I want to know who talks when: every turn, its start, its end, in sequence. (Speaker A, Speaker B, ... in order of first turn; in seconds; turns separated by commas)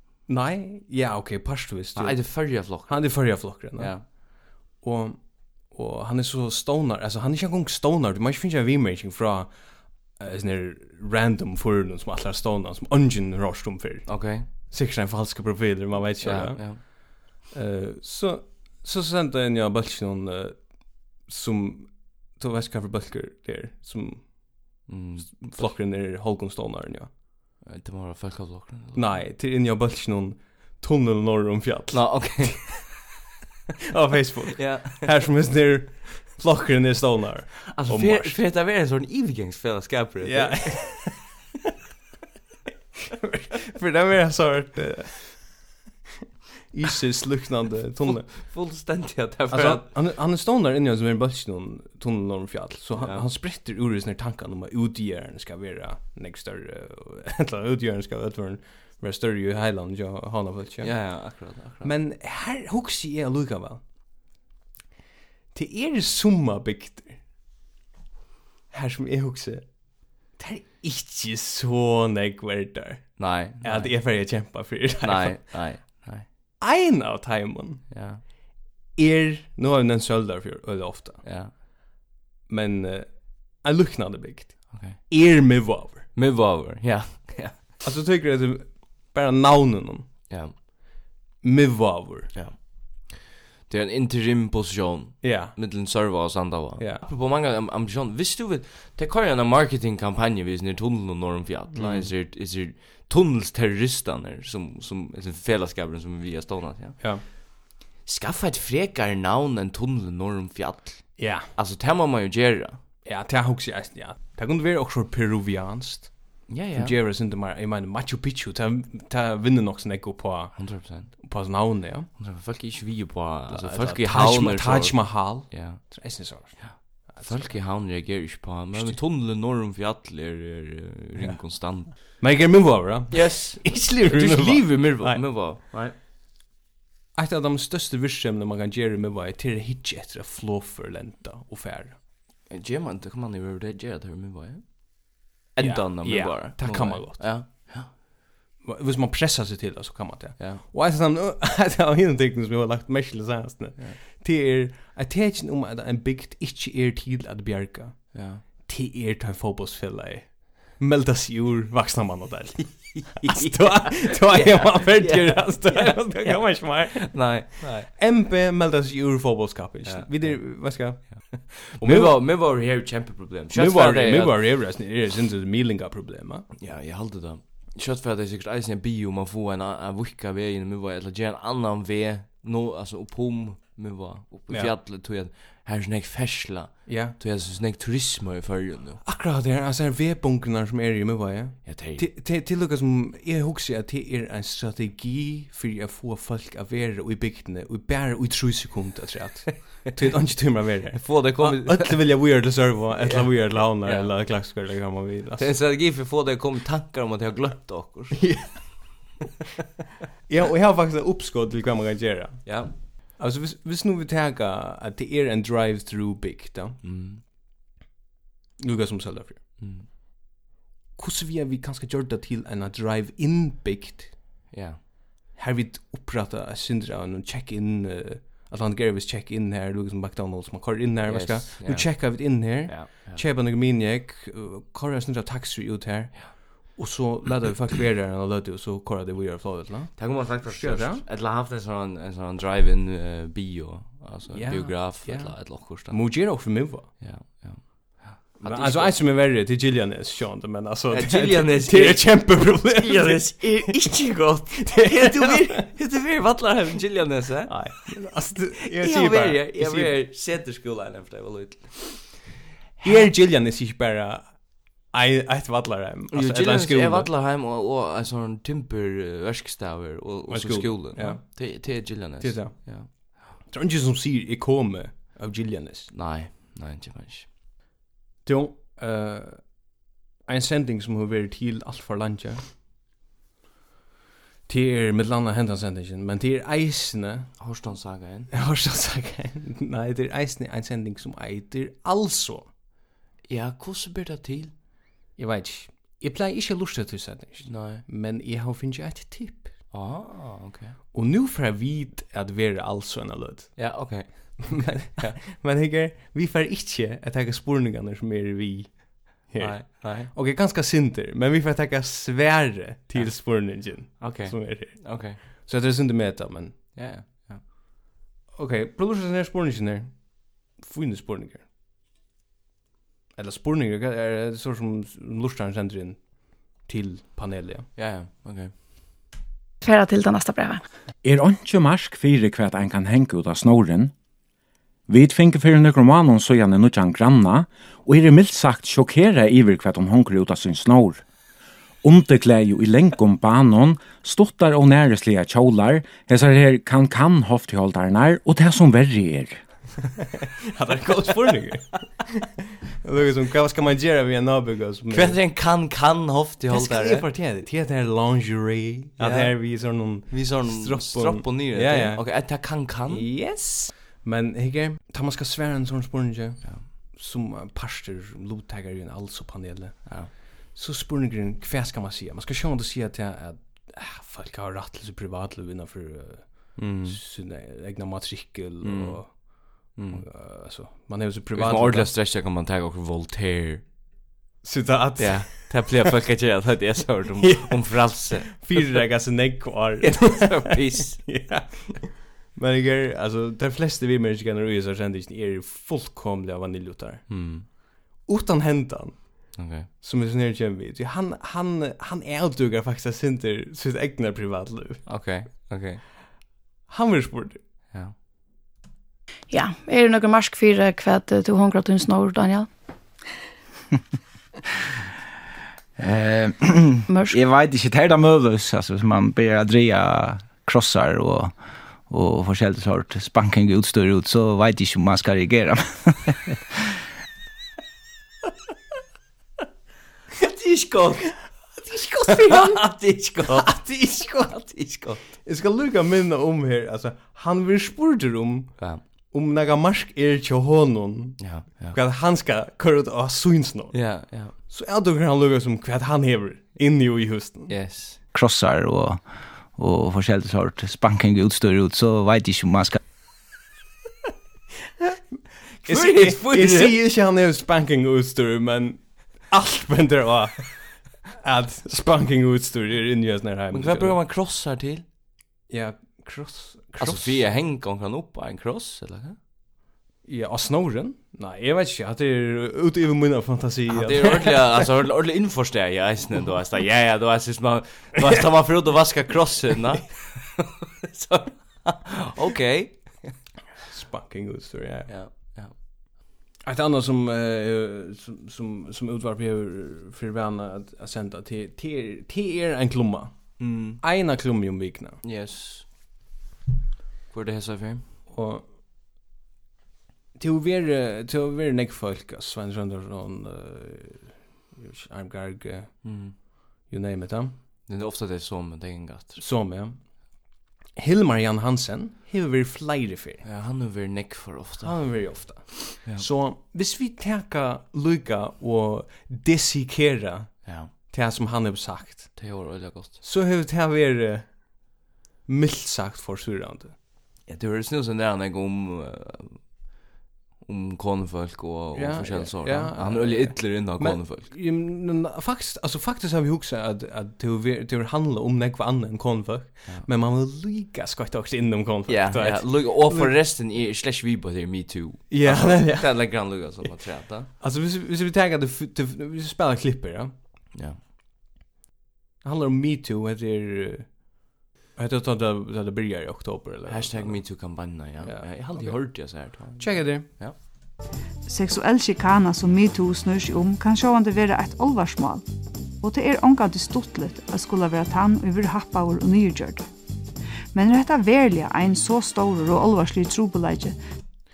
Speaker A: 0.3-27.1, Speaker B: 1.9-4.1, Speaker B: 14.1-14.5, Speaker B: 16.2-16.8, Speaker B: 24.9-25.7, Speaker B: 27.6-29.2, Speaker A: 28.9-32.7, Speaker B: 31.9-32.8, Speaker A: 33.9-38.4, Speaker B: 34.5-35.1, Speaker B: 37.7-40.9, Speaker A: 40.2-41.3, Speaker A: 43.2-45.7, Speaker A: 46.7-48.5, Speaker B: 48.0-49.9, Speaker A: 49.5-63.8, Speaker B: 53.0-53.3, Speaker B: 60.8-61.9, Speaker A: 65.5-67.4, Speaker A: 68.7-75.7, Speaker B: 73.2-74.5, Speaker B: 75.0-76.2, Speaker A: 76.6-81.2, Speaker B: 77.9-78.2, Speaker B: 81.2-81.5, Speaker A: 82.4-86.1, Speaker B: 84.7-85.6, Speaker B: 86.1-87.7, Speaker A: 87.8-90.1, Speaker B: 90.3-90.6, Speaker A: 91.4-92.3, Speaker B: 92.3-93.1, Speaker B: 93.7-107.3, Speaker A: 95.2-97.0, Speaker A: 101.7-102.1, Speaker B: 108.0-112.8, Speaker A: 111.2-111.5, Speaker A: 113.0-122.1, Speaker B: 116.5-116.9, Speaker B: 120.5-121.2, Speaker B: 122.1-132.2, Speaker A: 123.5-128.0, Speaker A: 128.7-129.0, Speaker A: 131.2-135.5, Speaker B: 133.1-135.9, Speaker A: 137.1-142.0, Speaker B: 142.4-147.9, Speaker A: 145.6-147.7, Speaker A: 148.6-172.8, Speaker B: 150.4-150.6, Speaker B: 158.1-158.4, Speaker B: 163.1-167.9, Speaker B: 169.8-174.6, Speaker A: 173.5-176.4, Speaker B: 176.6-189.0, Speaker A: 184.5-184.7, Speaker A: 186.8-187.1, Speaker A: 189.0-205.5, Speaker B: 191.6-192.1, Speaker B: 200.9-202.2, Speaker B: 203.0-204.1, Speaker B: 205.4-208.5, Speaker A: 208.2-209.1, Speaker A: 210.3-216.8, Speaker B: 212.4-212.7, Speaker B: 216.8-217.2, Speaker A: 218.6-219.6, Speaker B: 219.6-219.9, Speaker A: 220.9-224.3, Speaker B: 224.5-224.8, Speaker A: 225.3-241.0, Speaker B: 231.0-233.2, Speaker B: 239.9-249.0, Speaker A: 244.3-246.9, Speaker A: 248.4-255.7, Speaker B: 250.9-257.8, Speaker A: 257.5-260.0, Speaker B: 258.7-262.2, Speaker B: 262.8-263.1, Speaker A: 262.8-267.1, Speaker B: 266.1-272.9, Speaker A: 270.3-275.9, Speaker B: 275.9-277.3, Speaker A: 278.2-282.6, Speaker A: 284.5-287.4, Speaker B: 287.4-288.3, Speaker A: 288.3-292.5, Speaker B: 293.3-294.5, Speaker A: 295.1-299.6, Speaker B: 297.4-297.8, Speaker B: 299.7-300.8, Speaker A: 300.9-316.9, Speaker B: 303.6-305.2, Speaker B: 309.4-310.1, Speaker B: 312.9-315.2, Speaker B: 316.7-317.5, Speaker A: 318.3-321.5, Speaker A: 323.1-327.7, Speaker B: 327.8-328.5, Speaker C: 329.6-330.6, Speaker D: 331.0-333.9, Speaker D: 334.9-341.0, Speaker D: 341.8-349.4, Speaker A: 350.5-352.3, Speaker A: 352.8-355.2, Speaker B: 354.9-357.1, Speaker A: 356.5-381.9, Speaker B: 359.0-363.1, Speaker B: 369.8-370.1, Speaker B: 376.6-377.0, Speaker B: 378.6-380.0, Speaker B: 381.3-383.6, Speaker A: 384.4-385.8, Speaker B: 385.0-388.8, Speaker A: 387.2-404.8, Speaker B: 389.8-391.4, Speaker B: 397.1-397.5, Speaker B: 399.4-399.7, Speaker B: 404.9-405.8, Speaker A: 406.7-407.4, Speaker C: 409.3-412.5, Speaker E: 415.8-426.2, Speaker C: 416.9-417.1, Speaker B: 430.2-435.1, Speaker A: 431.8-432.6, Speaker A: 433.3-447.6, Speaker B: 441.2-441.8, Speaker B: 443.7-444.4, Speaker B: 447.5-448.0, Speaker E: 448.1-452.8, Speaker A: 455.6-464.0, Speaker B: 455.6-456.7, Speaker B: 463.5-464.8, Speaker A: 465.5-467.3, Speaker B: 466.8-469.2, Speaker A: 470.0-474.7, Speaker B: 473.7-483.2, Speaker A: 483.7-484.9, Speaker B: 484.9-485.6, Speaker A: 486.4-495.0, Speaker B: 493.4-493.8, Speaker B: 495.0-495.7, Speaker B: 497.1-497.8, Speaker A: 498.1-498.4, Speaker A: 500.1-507.3, Speaker B: 505.8-506.1, Speaker B: 507.7-509.2, Speaker A: 509.2-513.2, Speaker B: 513.2-516.0, Speaker A: 514.6-526.8, Speaker B: 520.4-520.7, Speaker B: 522.1-523.0, Speaker B: 527.2-529.5, Speaker B: 530.4-534.3, Speaker A: 531.7-543.1, Speaker B: 541.9-547.3, Speaker A: 545.1-546.6, Speaker A: 547.4-550.1, Speaker B: 550.5-550.8, Speaker A: 552.2-560.1, Speaker B: 556.7-560.4, Speaker F: 561.3-565.2, Speaker F: 565.8-569.6, Speaker F: 570.5-573.8